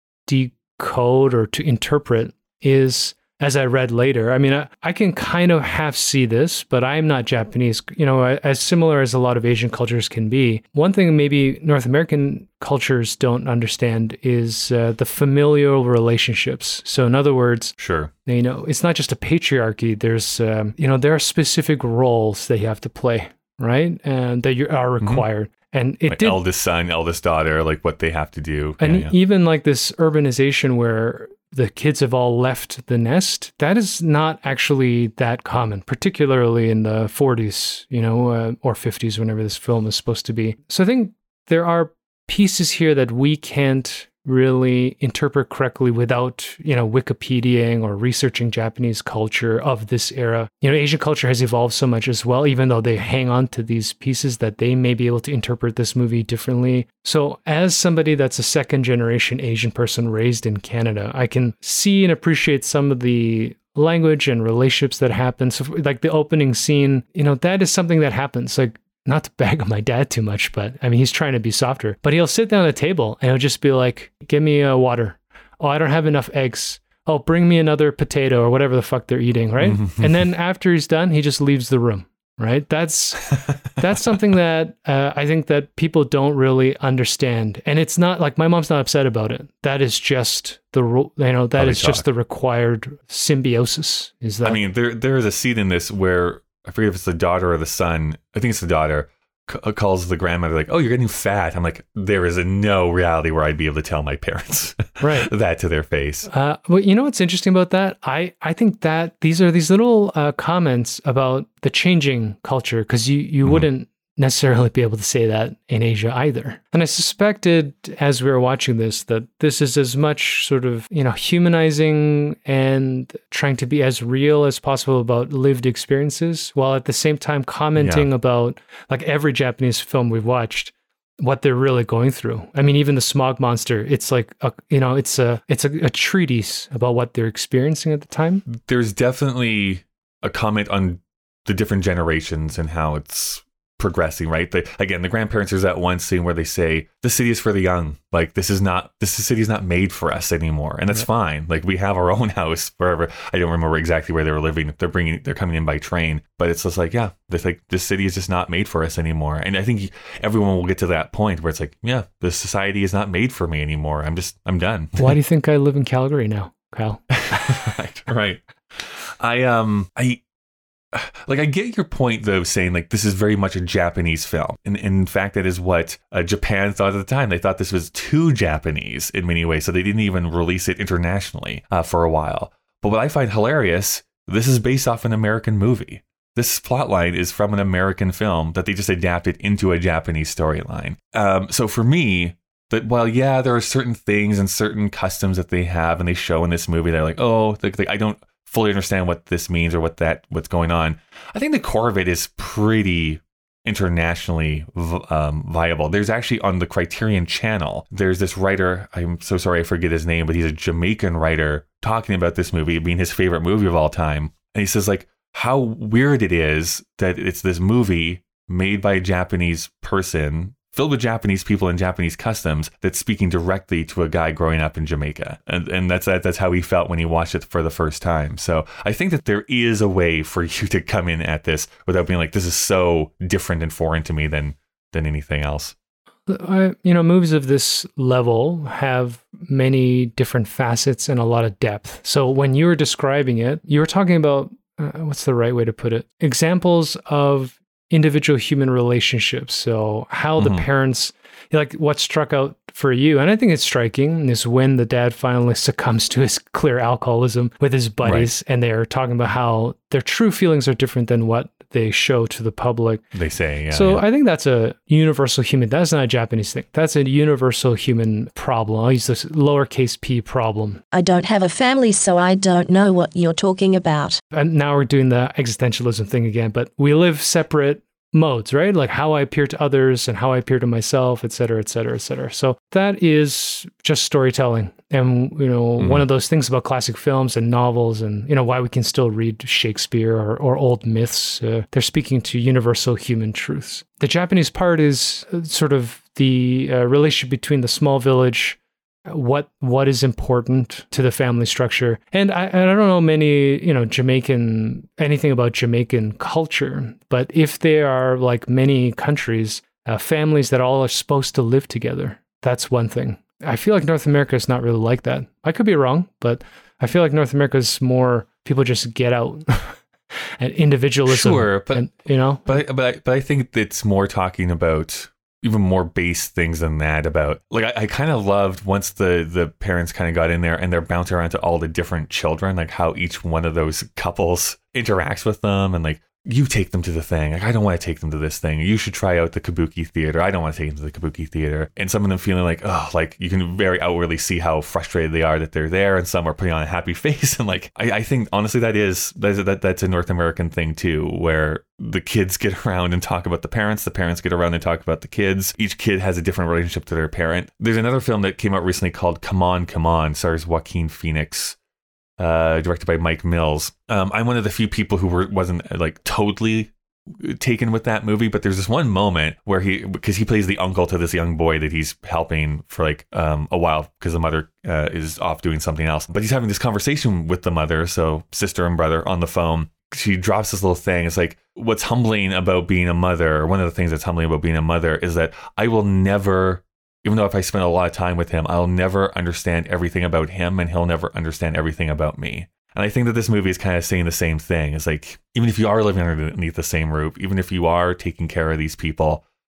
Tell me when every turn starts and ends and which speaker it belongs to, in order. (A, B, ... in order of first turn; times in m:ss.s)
0:00.3-0:26.4 A
0:17.8-0:18.1 B
0:25.0-0:25.3 B
0:26.1-0:29.1 B
0:28.8-1:34.6 A
1:19.6-1:20.2 B
1:31.6-1:32.0 B
1:34.4-1:46.3 B
1:45.0-1:45.3 A
1:46.3-2:18.4 A
2:07.8-2:08.1 B
2:18.5-2:45.2 B
2:45.0-2:47.6 A
2:47.1-2:50.2 B
2:50.9-3:55.7 B
3:56.3-4:23.0 A
4:10.4-4:10.7 B
4:18.0-4:18.3 B
4:23.1-4:24.0 B
4:23.7-4:30.8 A
4:30.9-4:34.2 C
4:34.3-5:19.8 A
4:45.8-4:46.1 B
5:20.4-5:22.6 A
5:21.1-6:01.6 B
6:02.2-6:39.2 B